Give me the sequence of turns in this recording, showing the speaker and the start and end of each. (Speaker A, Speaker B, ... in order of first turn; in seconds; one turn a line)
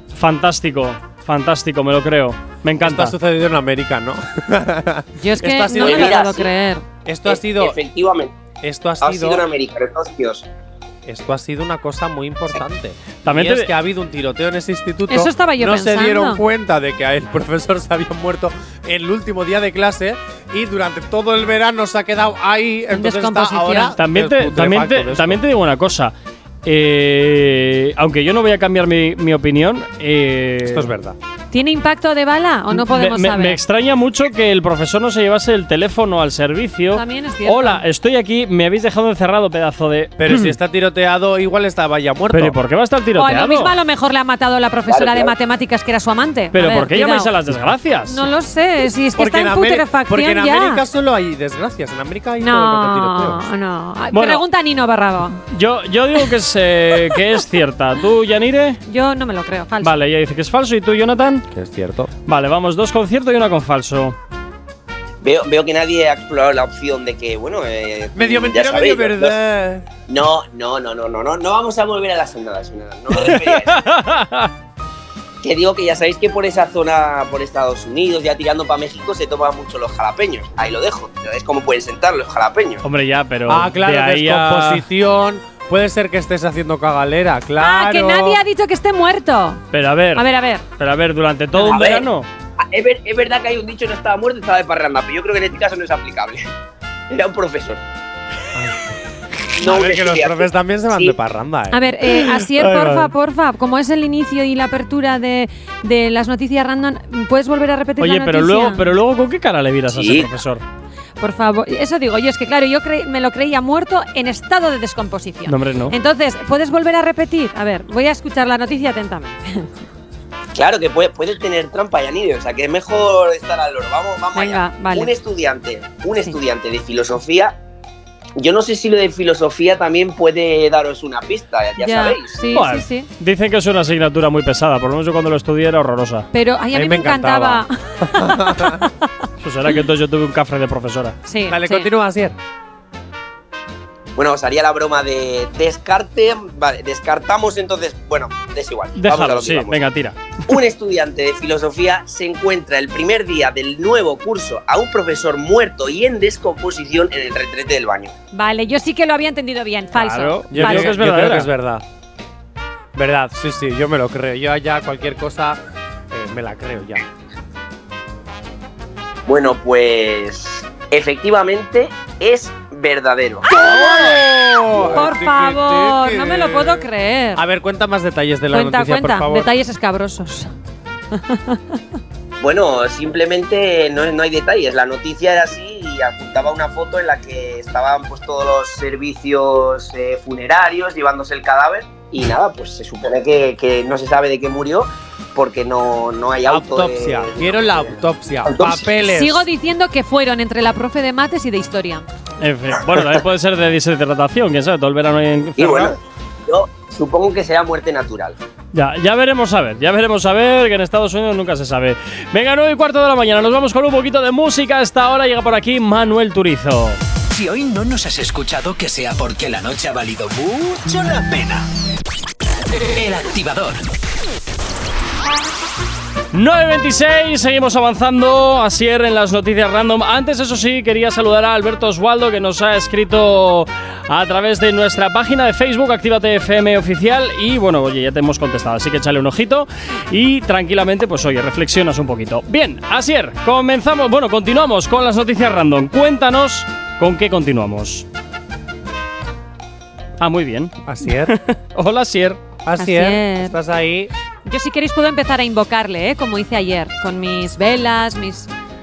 Speaker A: 0.1-3.1
Speaker B: 2.8-6.2
Speaker C: 5.2-6.8
Speaker D: 5.8-6.5
Speaker B: 7.0-7.8
Speaker D: 7.2-8.4
Speaker B: 8.6-9.4
Speaker D: 9.0-10.5
Speaker B: 11.1-25.4
Speaker A: 13.2-13.7
Speaker C: 15.1-16.4
Speaker C: 22.9-23.9
Speaker A: 24.0-26.1
Speaker A: 26.6-30.9
Speaker B: 30.6-31.2
Speaker C: 31.5-33.6
Speaker A: 32.7-40.5
Speaker C: 36.9-37.8
Speaker B: 40.2-42.6
Speaker A: 42.3-43.7
Speaker C: 43.2-47.4
Speaker D: 44.9-45.3
Speaker A: 46.5-48.2
Speaker C: 48.1-50.8
Speaker B: 49.2-53.5
Speaker C: 52.4-55.4
Speaker A: 54.1-54.4
Speaker A: 55.5-58.8
Speaker C: 58.9-60.0
Speaker A: 59.8-61.5
Speaker B: 61.5-62.1
Speaker A: 62.3-64.2
Speaker D: 65.2-69.4
Speaker B: 68.2-69.9
Speaker D: 70.1-73.8
Speaker A: 73.1-74.5
Speaker D: 75.4-82.8
Speaker A: 82.8-84.8
Speaker B: 83.5-88.4
Speaker C: 87.6-89.6
Speaker A: 89.7-90.3
Speaker C: 90.2-90.6
Speaker A: 90.8-92.3
Speaker D: 91.6-92.1
Speaker D: 92.6-96.5
Speaker D: 97.1-97.8
Speaker B: 98.5-98.8
Speaker D: 99.6-101.2
Speaker B: 99.6-102.0
Speaker C: 101.7-108.8
Speaker A: 102.5-103.1
Speaker A: 108.0-110.6
Speaker D: 109.9-110.4
Speaker C: 111.2-119.7
Speaker A: 115.5-115.9
Speaker D: 120.5-127.6
Speaker C: 124.3-125.1
Speaker D: 128.4-132.6
Speaker C: 131.8-133.1
Speaker A: 132.5-136.3
Speaker C: 136.3-138.9
Speaker B: 136.7-138.9
Speaker A: 139.4-141.2
Speaker C: 141.3-141.9
Speaker B: 141.5-142.4
Speaker D: 144.2-149.8
Speaker A: 149.0-150.2
Speaker D: 150.5-158.1
Speaker C: 158.3-160.9
Speaker A: 159.9-161.5
Speaker B: 160.5-161.8
Speaker B: 162.9-165.6
Speaker B: 166.1-167.0
Speaker D: 169.3-173.5
Speaker B: 173.5-179.5
Speaker C: 173.5-177.4
Speaker C: 178.5-180.5
Speaker C: 181.1-181.8
Speaker D: 182.4-198.9
Speaker B: 196.5-199.5
Speaker C: 199.1-202.1
Speaker A: 202.4-205.9
Speaker D: 205.6-208.4
Speaker A: 208.7-217.0
Speaker E: 217.3-221.7
Speaker E: 222.8-223.9
Speaker A: 226.3-248.1
Speaker A: 250.2-252.4
Speaker B: 250.8-251.4
Speaker B: 252.6-254.1
Speaker C: 252.8-253.6
Speaker C: 254.5-258.5